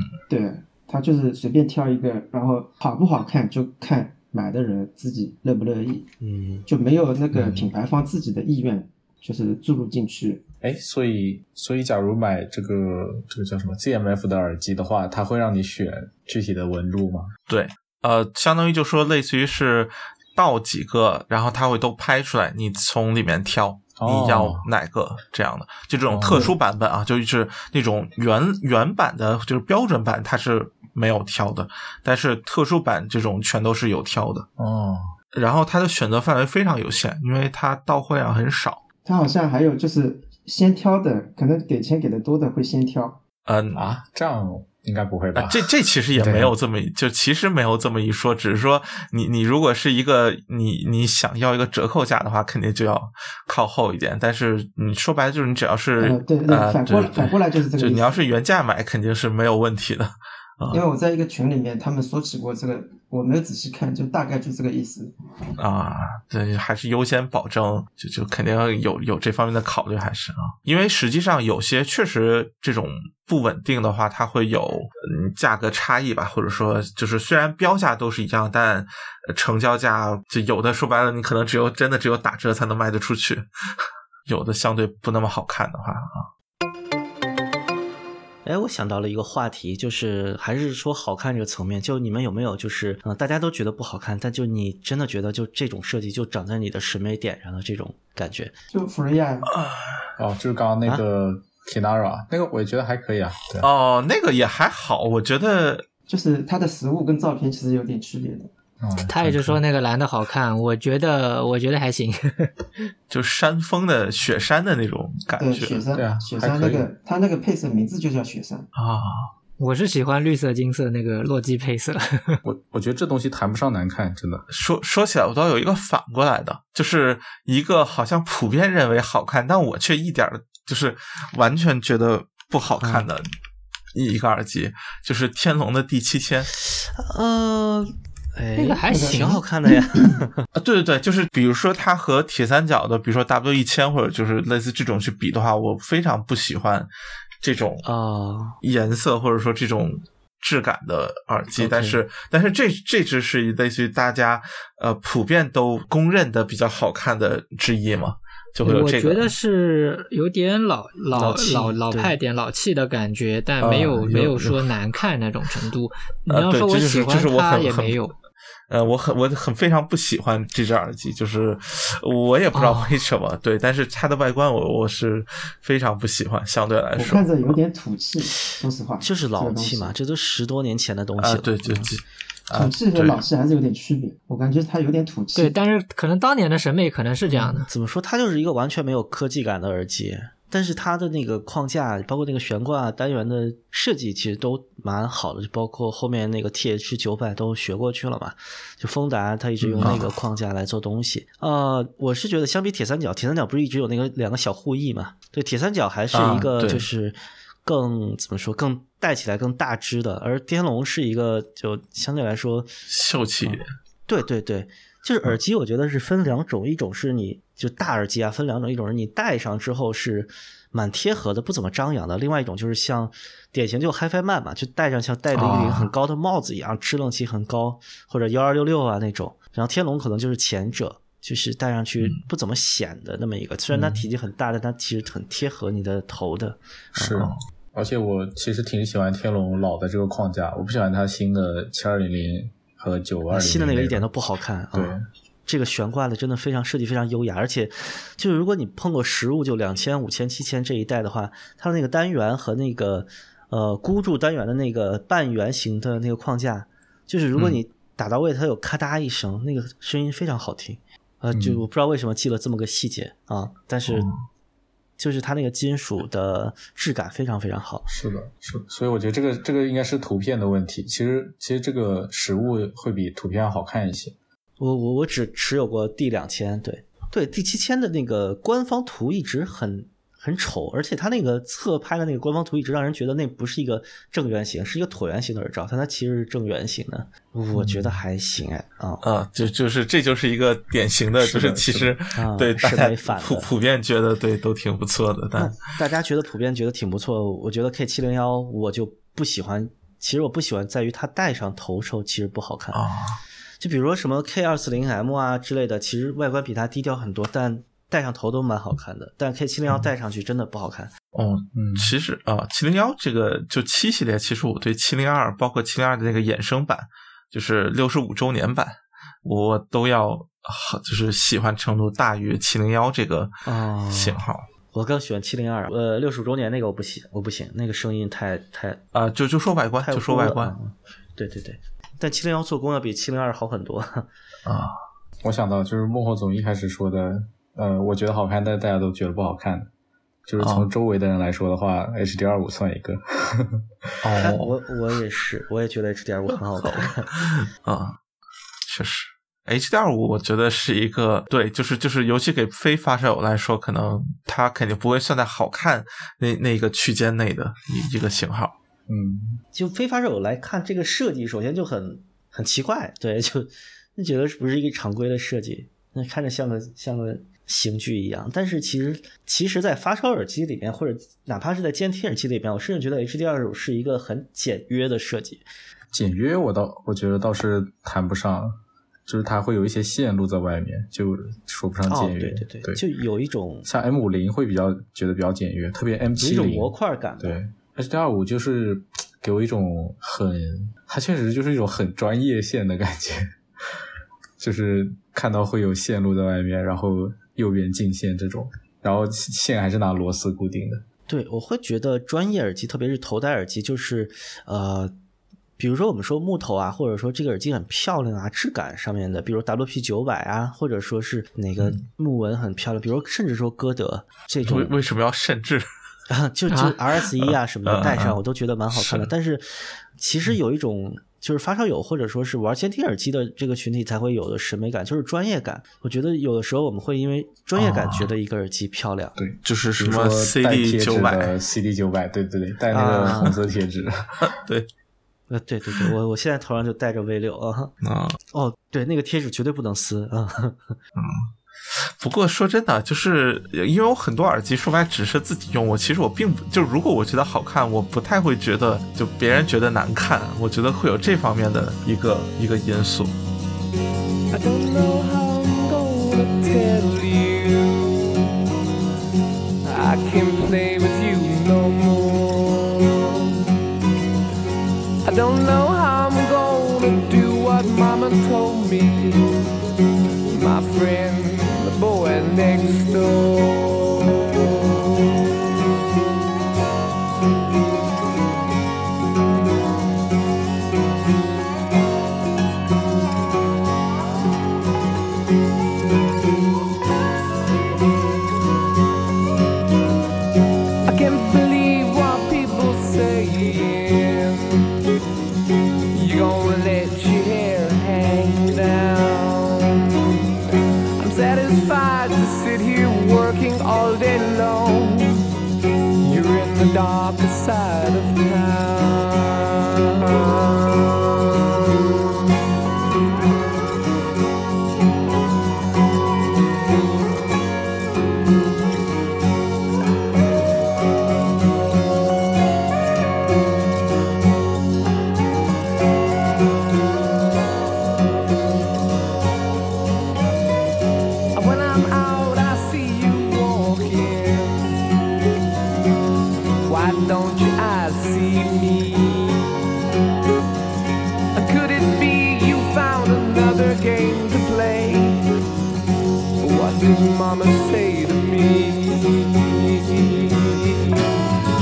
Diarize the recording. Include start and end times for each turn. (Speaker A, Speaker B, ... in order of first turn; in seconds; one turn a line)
Speaker A: 0.3-6.1
Speaker B: 6.2-6.7
Speaker A: 6.7-10.4
Speaker C: 7.3-7.6
Speaker C: 10.6-17.3
Speaker D: 17.5-34.5
Speaker C: 23.9-24.7
Speaker C: 26.1-26.5
Speaker C: 34.6-35.1
Speaker D: 35.3-38.8
Speaker A: 39.0-43.2
Speaker D: 43.5-43.8
Speaker C: 43.7-46.5
Speaker D: 45.3-60.8
Speaker A: 56.0-58.2
Speaker A: 60.7-65.1
Speaker D: 65.6-83.4
Speaker D: 84.2-86.3
Speaker B: 88.4-98.5
Speaker A: 98.7-99.5
Speaker D: 99.5-100.0
Speaker C: 100.2-103.7
Speaker D: 103.6-105.8
Speaker A: 106.1-108.5
Speaker C: 108.8-109.6
Speaker E: 109.0-112.5
Speaker D: 113.1-115.8
Speaker A: 115.4-118.7
Speaker C: 115.9-116.9
Speaker D: 118.7-119.3
Speaker E: 119.6-122.4
Speaker C: 122.4-124.4
Speaker D: 124.5-133.3
Speaker B: 132.8-133.1
Speaker D: 133.9-136.5
Speaker B: 136.6-140.4
Speaker E: 138.6-139.4
Speaker A: 138.9-139.2
Speaker D: 140.5-146.9
Speaker D: 147.4-147.8
Speaker B: 147.8-148.6
Speaker D: 148.6-159.3
Speaker B: 151.5-152.0
Speaker E: 158.6-168.1
Speaker B: 161.1-162.1
Speaker D: 163.7-164.6
Speaker D: 166.3-168.1
Speaker D: 168.7-177.5
Speaker E: 172.5-173.0
Speaker A: 176.9-179.9
Speaker B: 179.0-181.9
Speaker D: 181.2-183.2
Speaker A: 182.5-185.5
Speaker E: 185.3-187.7
Speaker B: 187.3-212.7
Speaker C: 199.6-200.0
Speaker D: 199.8-200.1
Speaker D: 206.1-206.9
Speaker D: 212.9-213.7
Speaker B: 213.4-237.2
Speaker D: 225.3-225.9
Speaker C: 236.9-244.1
Speaker B: 243.3-264.1
Speaker C: 244.7-245.0
Speaker C: 261.3-261.6
Speaker B: 265.0-267.9
Speaker C: 267.9-274.1
Speaker B: 274.6-289.0
Speaker D: 289.0-295.6
Speaker C: 291.2-292.0
Speaker B: 292.1-293.5
Speaker B: 295.4-302.8
Speaker D: 302.7-303.2
Speaker B: 303.6-310.9
Speaker D: 311.1-323.3
Speaker C: 311.5-311.9
Speaker B: 323.4-324.2
Speaker D: 323.9-324.5
Speaker B: 324.7-328.8
Speaker D: 328.9-330.5
Speaker B: 329.8-334.1
Speaker D: 334.4-334.8
Speaker C: 335.2-339.7
Speaker C: 340.3-344.1
Speaker D: 340.4-340.7
Speaker D: 344.0-344.5
Speaker B: 344.2-347.1
Speaker D: 346.6-348.0
Speaker D: 348.7-358.6
Speaker C: 358.9-359.4
Speaker B: 359.5-375.4
Speaker C: 375.9-378.5
Speaker C: 379.1-382.8
Speaker B: 381.9-383.7
Speaker C: 383.6-393.3
Speaker B: 386.2-387.4
Speaker C: 394.4-400.8
Speaker B: 401.1-404.9
Speaker B: 405.6-414.7
Speaker D: 414.4-415.6
Speaker B: 416.1-429.2
Speaker E: 416.5-416.8
Speaker D: 417.1-418.2
Speaker D: 418.7-419.1
Speaker D: 427.6-428.1
Speaker C: 429.2-434.3
Speaker D: 429.4-431.3
Speaker B: 432.7-433.3
Speaker D: 434.2-434.7
Speaker B: 435.3-437.7
Speaker D: 437.8-438.2
Speaker B: 438.3-440.8
Speaker D: 440.9-453.1
Speaker F: 454.3-458.4
Speaker F: 459.6-463.4
Speaker F: 465.0-469.4
Speaker F: 470.3-474.2
Speaker F: 490.9-494.7
Speaker F: 495.9-500.1
Speaker F: 501.0-505.3
Speaker F: 506.0-511.0
Speaker F: 531.3-534.7
Speaker F: 536.6-539.5
Speaker F: 541.3-545.3
Speaker F: 546.4-551.1